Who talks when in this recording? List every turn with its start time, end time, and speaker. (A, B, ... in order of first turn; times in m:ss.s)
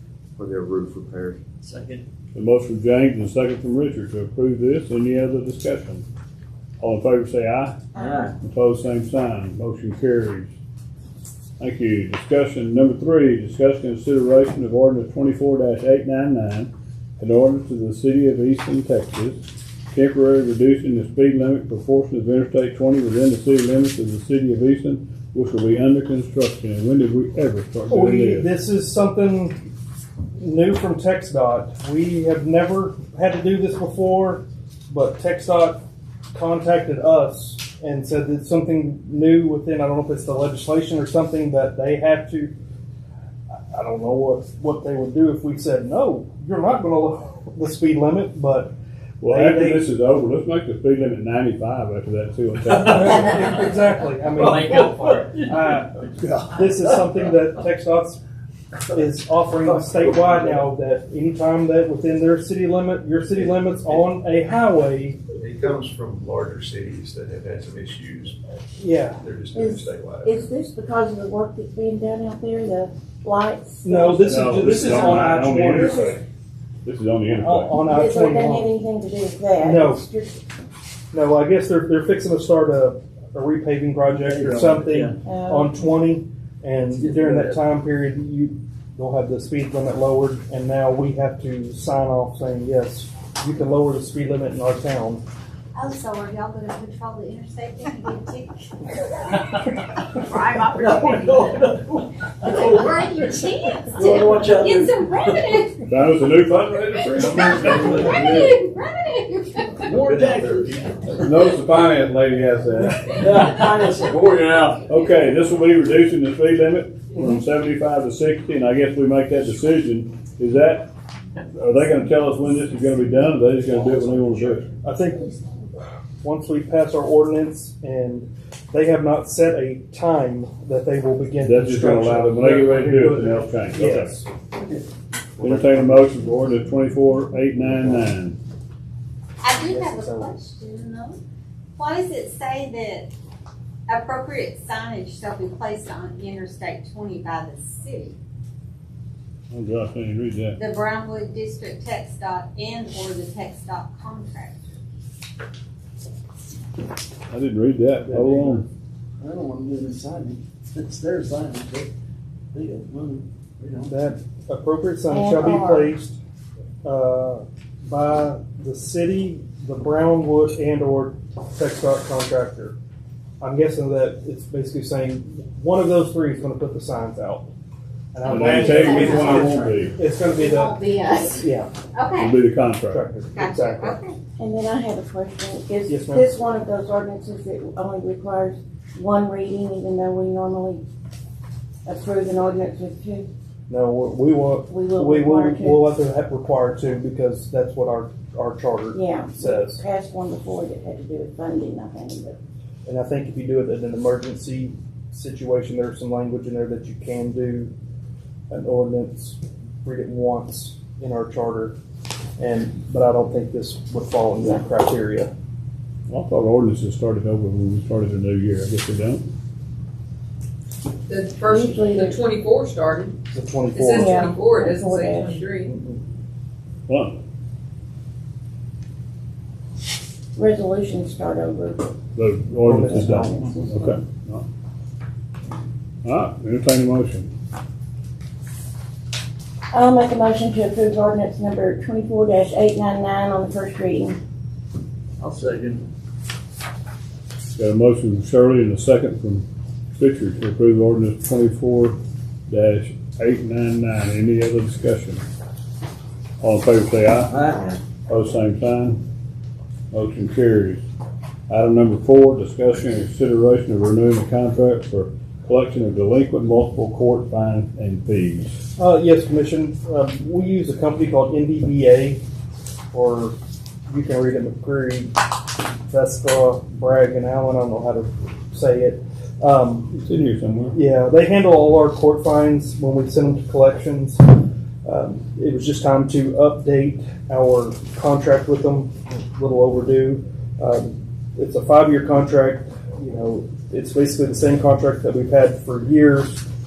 0:00.4-0:01.9 A
0:01.7-0:02.0 B
0:02.3-0:06.0 C
0:06.8-0:07.8 C
0:08.0-0:08.3 B
0:08.4-0:10.5 C
0:11.6-0:28.5 C
0:27.9-0:29.6 D
0:30.4-0:35.8 D
0:36.3-0:42.5 D
0:43.7-0:49.9 D
0:49.2-0:53.4 C
0:52.8-0:58.2 D
0:54.4-0:55.5 B
0:58.9-1:05.2 D
1:05.4-1:08.4 E
1:08.8-1:09.2 D
1:09.2-1:10.4 E
1:09.5-1:16.1 F
1:13.8-1:16.2 D
1:14.2-1:16.2 C
1:16.8-1:17.9 C
1:17.3-1:18.7 D
1:17.9-1:20.4 F
1:19.6-1:20.0 D
1:21.1-1:35.2 D
1:24.3-1:25.0 A
1:24.4-1:25.1 B
1:25.2-1:25.9 F
1:27.2-1:27.5 B
1:35.7-1:39.4 G
1:40.1-1:41.6 G
1:40.7-1:43.3 B
1:42.4-1:45.8 G
1:43.9-1:45.4 B
1:45.9-1:48.5 C
1:47.6-1:48.2 B
1:47.9-1:49.9 G
1:49.8-1:51.2 B
1:50.1-1:50.7 A
1:51.2-2:00.9 C
1:53.1-1:54.7 B
2:01.5-2:04.7 C
2:04.8-2:05.4 D
2:06.2-2:14.3 D
2:11.4-2:14.2 C
2:15.4-2:18.4 C
2:19.4-2:21.2 G
2:19.6-2:20.5 D
2:21.8-2:23.1 G
2:23.9-2:28.2 G
2:29.5-2:30.6 C
2:30.6-2:34.6 G
2:37.3-2:38.6 C
2:38.0-2:38.6 D
2:39.2-2:41.9 B
2:42.5-2:43.9 B
2:43.9-2:46.2 D
2:45.1-2:45.9 F
2:46.8-2:52.8 D
2:53.4-2:57.5 D
2:58.1-3:00.8 D
2:58.3-2:59.9 C
2:58.4-2:59.5 F
2:58.6-2:59.3 G
3:00.3-3:01.5 F
3:01.4-3:01.7 D
3:01.9-3:02.3 G
3:02.2-3:03.0 C
3:02.9-3:04.0 D
3:03.3-3:04.2 G
3:04.4-3:10.8 F
3:05.9-3:06.4 D
3:11.8-3:13.3 F
3:13.7-3:19.8 D
3:14.7-3:15.9 F
3:18.9-3:22.4 F
3:22.8-3:27.7 D
3:28.5-3:31.8 D
3:32.4-3:35.3 D
3:36.1-3:39.3 C
3:41.1-3:43.2 H
3:41.4-3:42.2 F
3:43.3-3:44.7 D
3:43.7-3:45.8 H
3:43.9-3:45.4 F
3:45.7-3:46.0 D
3:46.9-3:47.2 C
3:50.3-3:51.8 F
3:52.2-3:54.4 C
3:52.6-3:53.5 D
3:52.7-3:53.9 F
3:56.0-3:57.3 C
3:59.7-4:04.2 F
4:05.3-4:05.8 B
4:07.6-4:12.0 C
4:12.5-4:15.2 C
4:16.4-4:17.4 C
4:18.1-4:19.0 C
4:19.9-4:20.8 C
4:21.5-4:28.5 C
4:28.8-4:32.2 D
4:32.9-4:33.4 D
4:33.9-4:35.3 D
4:35.9-4:39.9 D
4:39.9-4:40.8 C
4:40.7-4:56.4 D